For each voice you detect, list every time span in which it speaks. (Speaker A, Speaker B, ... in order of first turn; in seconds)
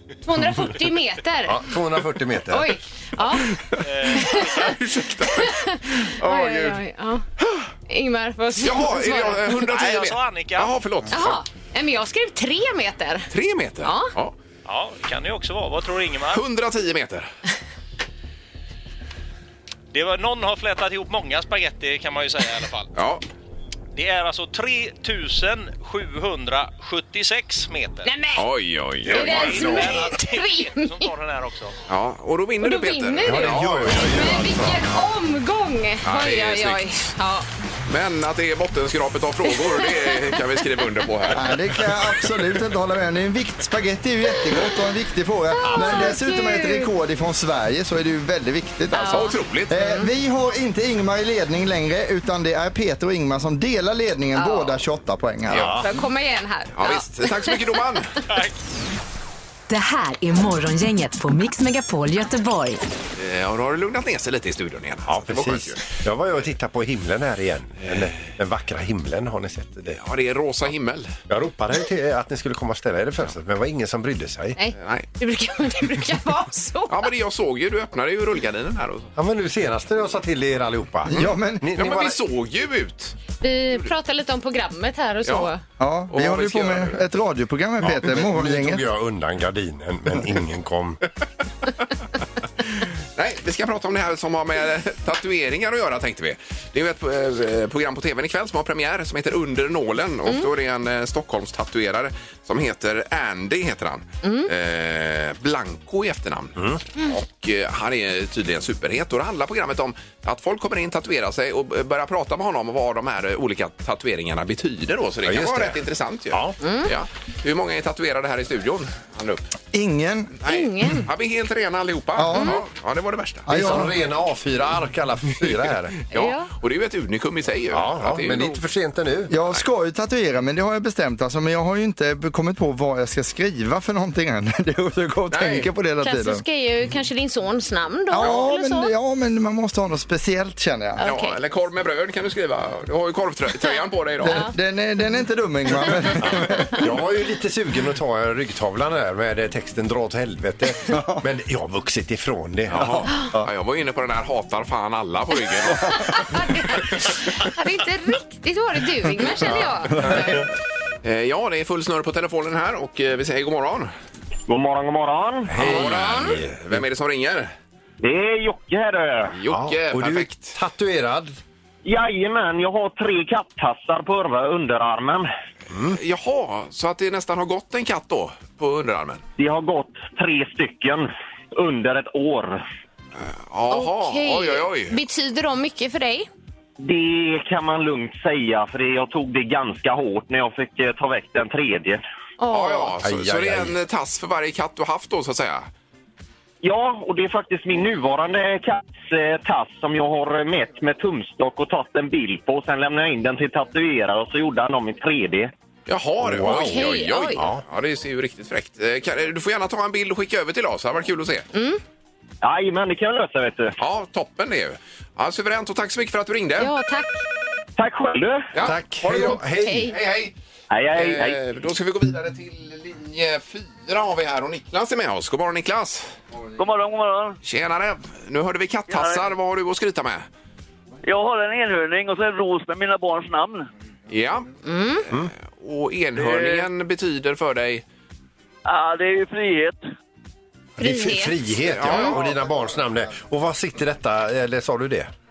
Speaker A: 0.2-1.6, 2.5-3.5, 4.1-4.6, 5.3-7.2, 7.9-9.6, 11.1-13.3, 13.8-14.1, 28.0-28.5, 29.1-31.1, 32.6-37.5, 39.5-40.4, 45.6-46.9, 48.9-50.1, 54.4-54.8, 55.8-57.6, 74.6-77.1, 83.4-85.6, 104.2-104.5, 116.6-116.9, 120.5-121.1, 122.3-122.6, 126.1-126.5, 136.0-138.9, 141.0-141.4, 144.2-144.5, 156.0-160.4, 165.6-166.4, 183.7-186.3, 192.4-192.9, 206.4-207.4, 211.5-211.8, 216.6-217.2, 219.1-220.0, 234.7-235.1, 240.8-242.1
Speaker B: 1.5-2.7, 29.3-29.8, 33.2-34.9, 45.7-46.0, 55.5-55.9, 65.1-70.0, 71.3-74.6, 79.2-82.2, 87.8-91.0, 106.6-106.8, 115.2-116.6, 123.5-126.0, 127.7-129.3, 146.2-153.1, 165.5-166.8, 169.5-171.4, 193.0-193.8, 206.2-207.6, 218.6-219.9, 240.8-245.1
Speaker C: 3.7-6.8, 7.4-7.7, 8.6-11.4, 13.3-14.3, 16.3-17.3, 22.9-23.2, 28.4-29.9, 31.9-34.7, 36.0-36.9, 37.9-41.7, 49.1-49.7, 55.5-55.8, 56.8-58.1, 63.2-65.8, 69.9-71.1, 74.8-75.1, 76.9-79.1, 81.1-83.2, 86.1-87.0, 93.2-119.5, 120.4-123.8, 125.4-128.6, 135.3-135.7, 141.0-144.4, 152.7-156.2, 160.0-160.4, 161.0-163.9, 165.6-167.5, 169.3-170.6, 175.8-179.2, 183.2-185.0, 192.5-195.7, 205.9-211.5, 213.8-216.7, 218.5-220.3, 220.9-226.1, 227.4-230.2, 234.1-234.5, 235.1-237.8, 241.6-242.4
Speaker D: 3.8-4.8, 9.5-10.8, 14.7-16.4, 19.9-23.0, 23.9-28.1, 29.1-31.8, 58.3-58.5
Speaker E: 41.3-55.8, 81.1-81.7, 85.8-88.8, 119.7-120.3, 122.2-122.6, 123.5-123.9, 129.3-136.4, 138.1-141.0, 144.2-146.9, 150.9-151.2, 160.1-160.4
Speaker F: 59.7-62.8
Speaker G: 164.5-165.6, 168.0-169.3, 171.8-175.3, 179.4-182.6, 186.8-192.0, 196.6-205.5, 212.4-213.8, 217.8-218.5, 220.7-221.4
Speaker H: 226.6-227.4, 228.9-229.3, 231.0-233.7, 236.2-236.7, 238.7-239.8